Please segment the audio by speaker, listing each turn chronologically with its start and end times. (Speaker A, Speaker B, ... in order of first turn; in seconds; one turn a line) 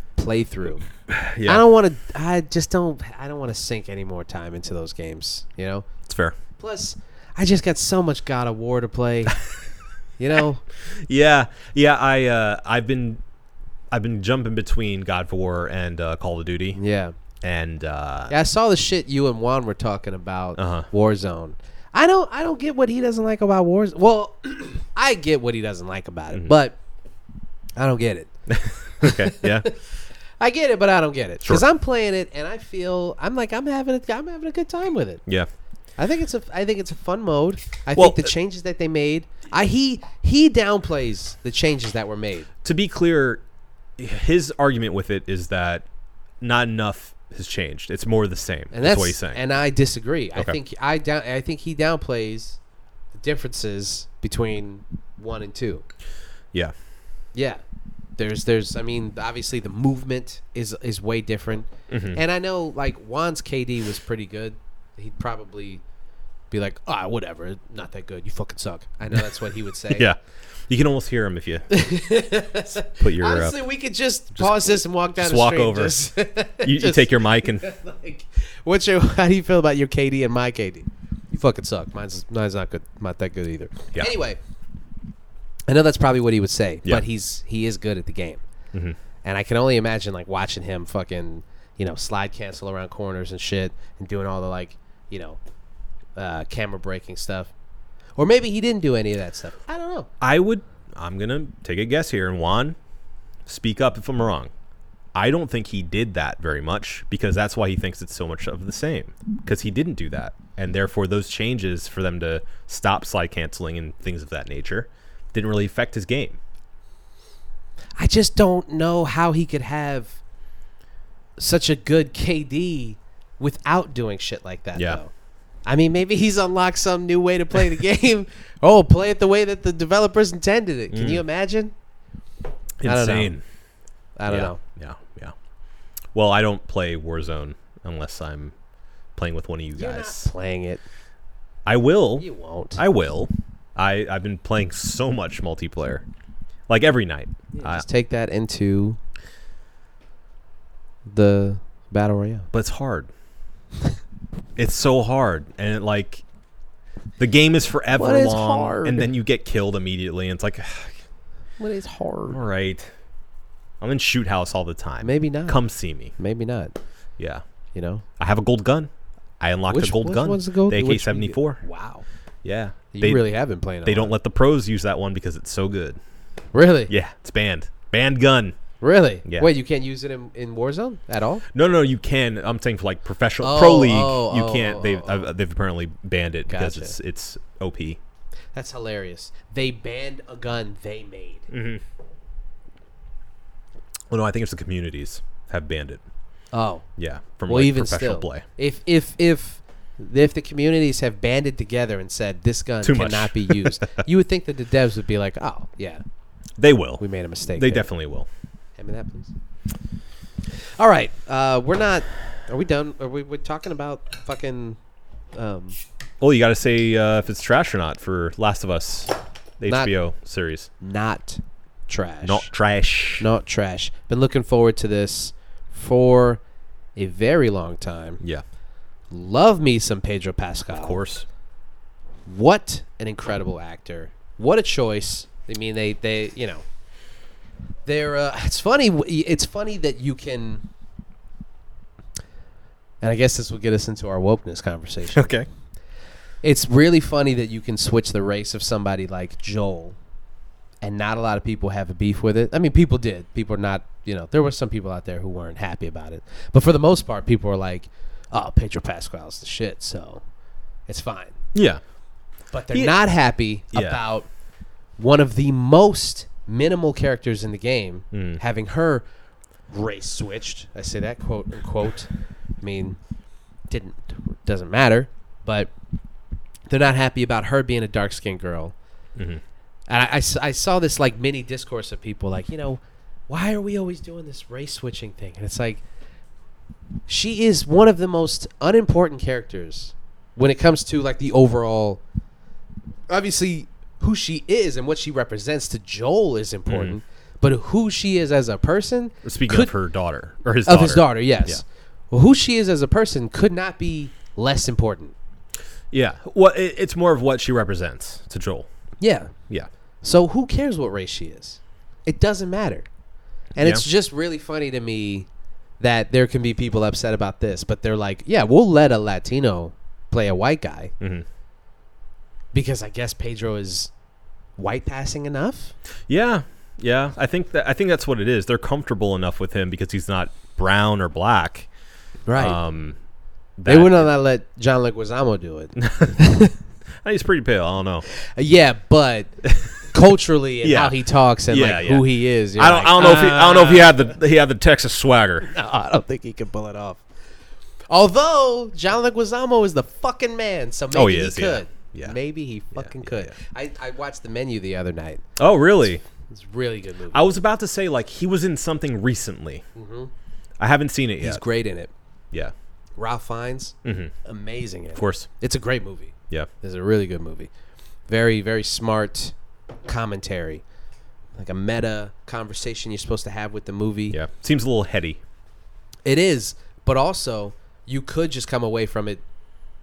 Speaker A: 0.2-0.8
Speaker B: 1.1-1.6
Speaker A: 1.4-5.9
Speaker B: 6.1-6.3
Speaker A: 6.6-9.4
Speaker A: 10.2-10.6
Speaker B: 10.8-13.2
Speaker B: 13.9-16.8
Speaker A: 16.7-17.1
Speaker B: 17.4-18.3
Speaker A: 18.3-26.8
Speaker B: 20.6-20.9
Speaker A: 27.8-28.3
Speaker B: 28.5-29.7
Speaker A: 29.0-29.7
Speaker A: 30.4-35.2
Speaker A: 36.0-42.5
Speaker B: 38.0-38.3
Speaker B: 42.6-43.4
Speaker B: 44.0-45.9
Speaker B: 46.4-49.4
Speaker A: 48.7-52.6
Speaker A: 53.1-55.8
Speaker A: 57.3-57.6
Speaker A: 58.2-65.8
Speaker B: 61.9-62.2
Speaker A: 66.5-70.1
Speaker B: 69.9-71.7
Speaker A: 71.7-84.4
Speaker B: 73.0-73.6
Speaker B: 74.3-76.0
Speaker B: 76.6-77.7
Speaker A: 85.7-88.4
Speaker A: 89.2-95.4
Speaker A: 96.2-97.5
Speaker A: 98.2-100.1
Speaker B: 100.2-102.8
Speaker B: 103.5-104.5
Speaker B: 105.1-116.4
Speaker A: 118.0-120.2
Speaker A: 121.4-125.1
Speaker A: 125.7-131.7
Speaker B: 130.9-131.2
Speaker B: 132.8-133.4
Speaker A: 132.8-133.3
Speaker A: 134.2-134.6
Speaker B: 134.3-135.3
Speaker B: 136.1-138.5
Speaker B: 139.2-140.3
Speaker A: 139.7-140.8
Speaker B: 141.7-146.1
Speaker A: 142.2-142.8
Speaker B: 146.7-147.8
Speaker A: 147.5-149.0
Speaker A: 151.1-152.5
Speaker B: 152.5-153.1
Speaker B: 154.6-156.2
Speaker B: 157.2-161.0
Speaker A: 157.9-159.1
Speaker A: 161.6-162.4
Speaker B: 162.3-162.9
Speaker B: 163.8-166.1
Speaker A: 165.0-165.6
Speaker A: 166.2-166.8
Speaker B: 167.2-167.4
Speaker A: 167.7-168.0
Speaker B: 168.2-171.6
Speaker A: 169.7-172.0
Speaker B: 172.4-173.2
Speaker A: 172.9-174.1
Speaker B: 173.8-176.0
Speaker A: 176.5-176.9
Speaker B: 176.9-178.6
Speaker A: 178.8-181.4
Speaker B: 179.2-179.5
Speaker B: 181.5-188.0
Speaker A: 183.4-185.3
Speaker A: 186.5-186.9
Speaker A: 188.5-191.5
Speaker B: 191.5-191.8
Speaker B: 194.1-196.0
Speaker A: 196.5-196.8
Speaker B: 197.0-198.4
Speaker A: 197.5-206.0
Speaker B: 202.8-203.9
Speaker B: 206.6-208.3
Speaker A: 207.0-207.9
Speaker A: 208.8-209.3
Speaker A: 210.8-214.8
Speaker A: 215.3-215.8
Speaker B: 216.2-220.7
Speaker A: 219.7-219.9
Speaker A: 220.8-222.5
Speaker B: 222.2-223.3
Speaker A: 223.2-226.4
Speaker A: 226.9-228.2
Speaker A: 229.1-231.0
Speaker B: 230.7-231.2
Speaker A: 232.2-236.6
Speaker A: 237.8-240.6
Speaker A: 243.0-245.3
Speaker B: 245.1-245.5
Speaker A: 246.4-250.0
Speaker A: 250.8-260.2
Speaker A: 260.9-261.4
Speaker B: 261.5-261.8
Speaker A: 262.5-264.3
Speaker B: 263.7-264.0
Speaker A: 265.0-269.0
Speaker B: 268.1-268.4
Speaker A: 269.7-273.0
Speaker A: 273.7-275.7
Speaker A: 276.7-278.7
Speaker B: 279.1-279.4
Speaker A: 279.9-285.8
Speaker A: 287.1-292.0
Speaker A: 293.1-299.7
Speaker B: 296.7-297.0
Speaker B: 299.2-301.6
Speaker A: 300.6-305.1
Speaker B: 305.9-308.7
Speaker A: 309.0-309.3
Speaker A: 310.0-312.9
Speaker A: 313.6-315.3
Speaker A: 315.8-320.9
Speaker B: 321.0-321.2
Speaker A: 322.5-323.9
Speaker A: 324.6-325.7
Speaker B: 326.1-331.7
Speaker A: 332.3-332.6
Speaker B: 332.4-332.9
Speaker B: 333.6-334.1
Speaker A: 333.6-336.6
Speaker B: 335.8-336.2
Speaker B: 337.0-338.0
Speaker A: 338.1-344.1
Speaker B: 339.5-339.7
Speaker B: 340.6-345.5
Speaker A: 345.4-347.0
Speaker A: 347.9-355.2
Speaker B: 350.9-352.2
Speaker B: 352.7-353.3
Speaker B: 355.4-356.0
Speaker A: 356.2-357.3
Speaker B: 357.1-359.6
Speaker A: 359.7-360.1
Speaker B: 360.6-361.4
Speaker A: 361.2-361.9
Speaker A: 363.0-367.5
Speaker B: 363.8-364.1
Speaker B: 364.9-365.3
Speaker A: 368.1-369.3
Speaker A: 369.9-370.6
Speaker A: 371.4-374.2
Speaker B: 374.1-375.2
Speaker A: 376.0-379.2